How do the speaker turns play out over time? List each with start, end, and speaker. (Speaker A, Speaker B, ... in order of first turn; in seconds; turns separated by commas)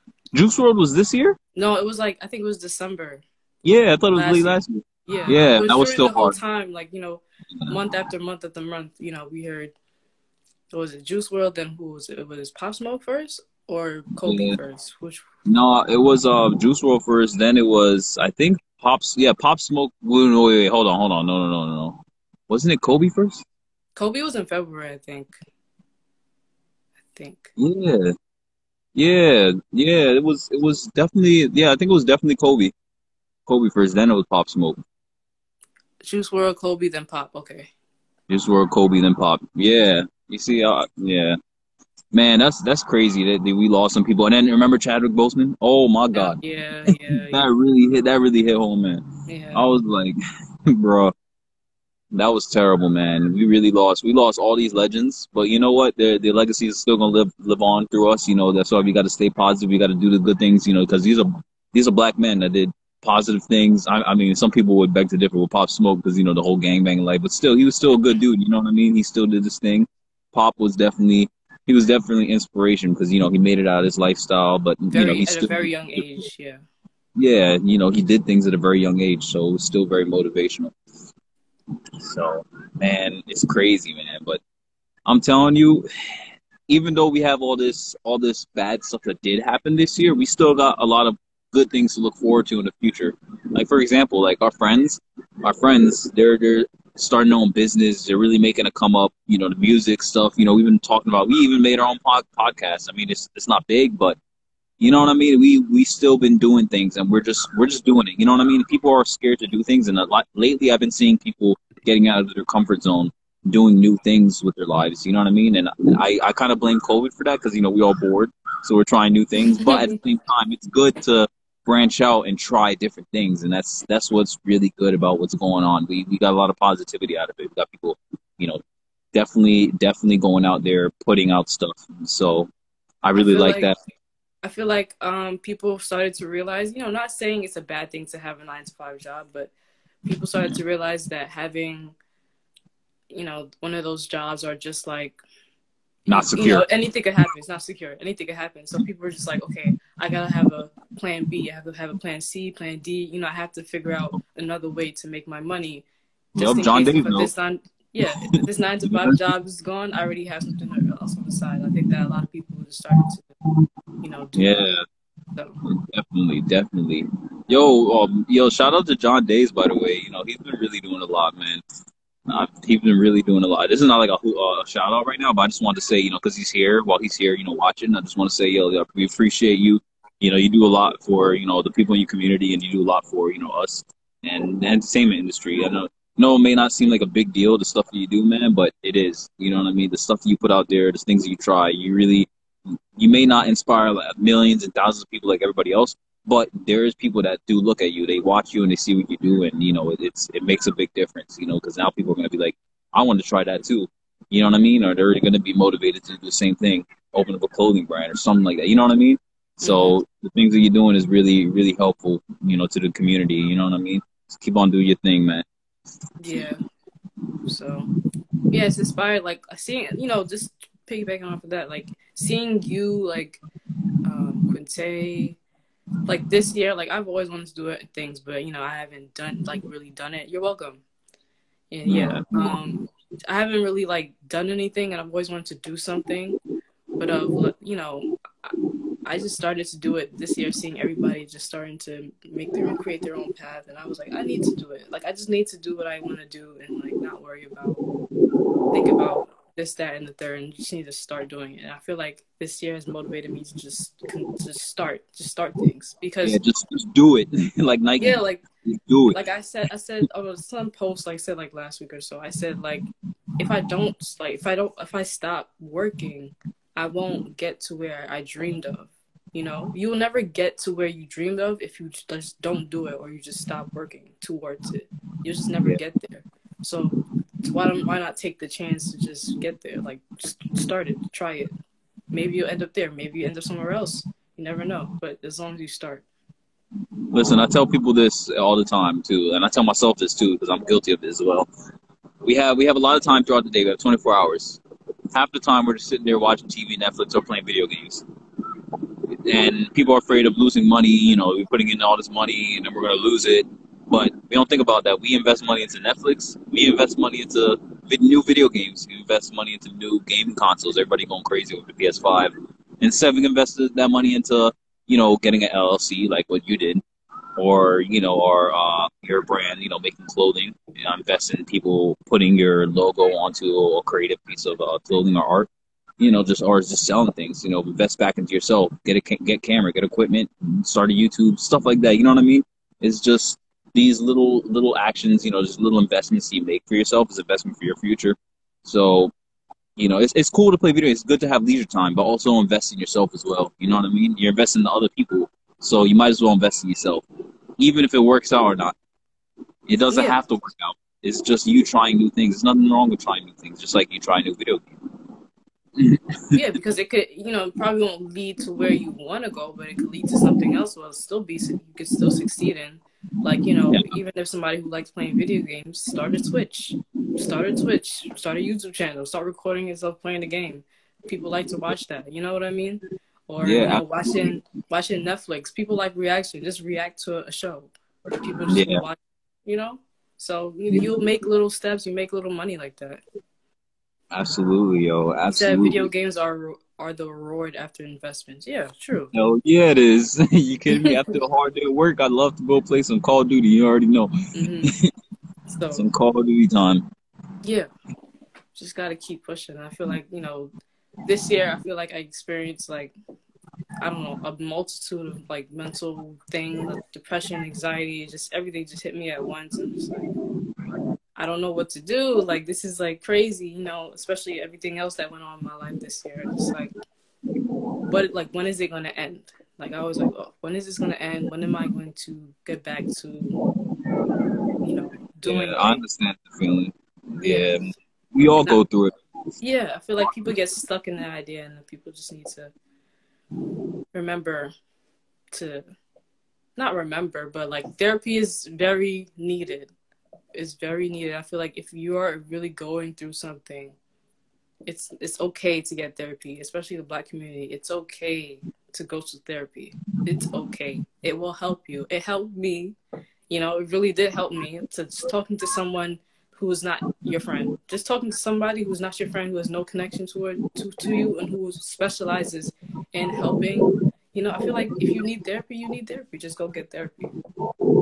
Speaker A: 0.3-1.4, Speaker B: 1.6-3.2, Speaker A: 3.6-6.4, Speaker B: 4.1-9.7, Speaker B: 10.7-15.3, Speaker A: 14.3-14.6, Speaker A: 15.5-23.4, Speaker B: 24.0-25.3, Speaker B: 27.1-27.5, Speaker A: 27.6-28.1, Speaker A: 28.9-32.7, Speaker A: 33.5-34.8, Speaker B: 36.0-37.7, Speaker A: 38.3-41.4, Speaker A: 42.1-49.0, Speaker B: 46.1-47.4, Speaker B: 49.3-49.7, Speaker A: 49.5-50.2, Speaker A: 50.7-51.1, Speaker A: 52.1-76.2, Speaker B: 74.9-76.6, Speaker A: 77.2-80.7, Speaker A: 82.0-84.4, Speaker A: 85.1-85.9, Speaker A: 86.7-104.2, Speaker A: 104.8-128.6, Speaker B: 119.5-120.0, Speaker A: 129.1-132.5, Speaker A: 133.0-133.8, Speaker B: 133.2-133.8, Speaker B: 134.4-139.5, Speaker B: 140.1-142.0, Speaker B: 143.1-145.2, Speaker B: 146.1-163.3, Speaker A: 146.1-146.7, Speaker A: 156.4-157.3, Speaker A: 158.3-159.2, Speaker B: 164.0-164.8, Speaker A: 164.4-164.8, Speaker A: 165.7-171.6, Speaker A: 172.3-192.3, Speaker A: 193.0-215.5, Speaker B: 209.6-210.0, Speaker B: 216.2-216.6, Speaker B: 217.5-217.9, Speaker B: 218.5-223.4, Speaker B: 224.0-225.4, Speaker B: 226.1-230.8, Speaker B: 231.7-236.4, Speaker A: 231.9-232.6, Speaker B: 237.0-238.5, Speaker B: 239.1-247.8, Speaker B: 248.7-256.4, Speaker A: 256.2-259.2, Speaker B: 258.0-258.4, Speaker B: 259.1-262.9, Speaker B: 263.4-281.6, Speaker B: 282.1-286.1, Speaker A: 287.1-291.5, Speaker A: 292.2-294.6, Speaker A: 295.1-298.1, Speaker A: 299.1-316.8, Speaker A: 317.4-325.5, Speaker A: 326.0-339.1, Speaker A: 339.8-347.0, Speaker A: 347.6-348.8, Speaker A: 349.7-354.6, Speaker B: 349.9-350.2, Speaker A: 355.8-356.4, Speaker B: 356.3-383.0, Speaker A: 373.4-374.3, Speaker A: 378.5-378.9, Speaker A: 380.7-381.1, Speaker A: 384.1-385.9, Speaker B: 385.3-389.1, Speaker A: 389.1-394.1, Speaker B: 390.7-391.0, Speaker B: 394.3-394.7, Speaker B: 395.5-395.9, Speaker A: 395.7-396.9, Speaker B: 397.4-397.7, Speaker B: 398.6-400.5, Speaker B: 401.1-402.9, Speaker B: 403.8-410.1, Speaker B: 411.2-416.7, Speaker B: 417.9-423.4, Speaker B: 424.6-425.8, Speaker A: 425.2-428.9, Speaker B: 427.2-427.8, Speaker B: 429.4-432.5, Speaker B: 433.9-434.5, Speaker B: 435.3-435.6, Speaker B: 436.6-439.7, Speaker B: 440.4-443.8, Speaker B: 444.7-452.8, Speaker B: 453.3-467.1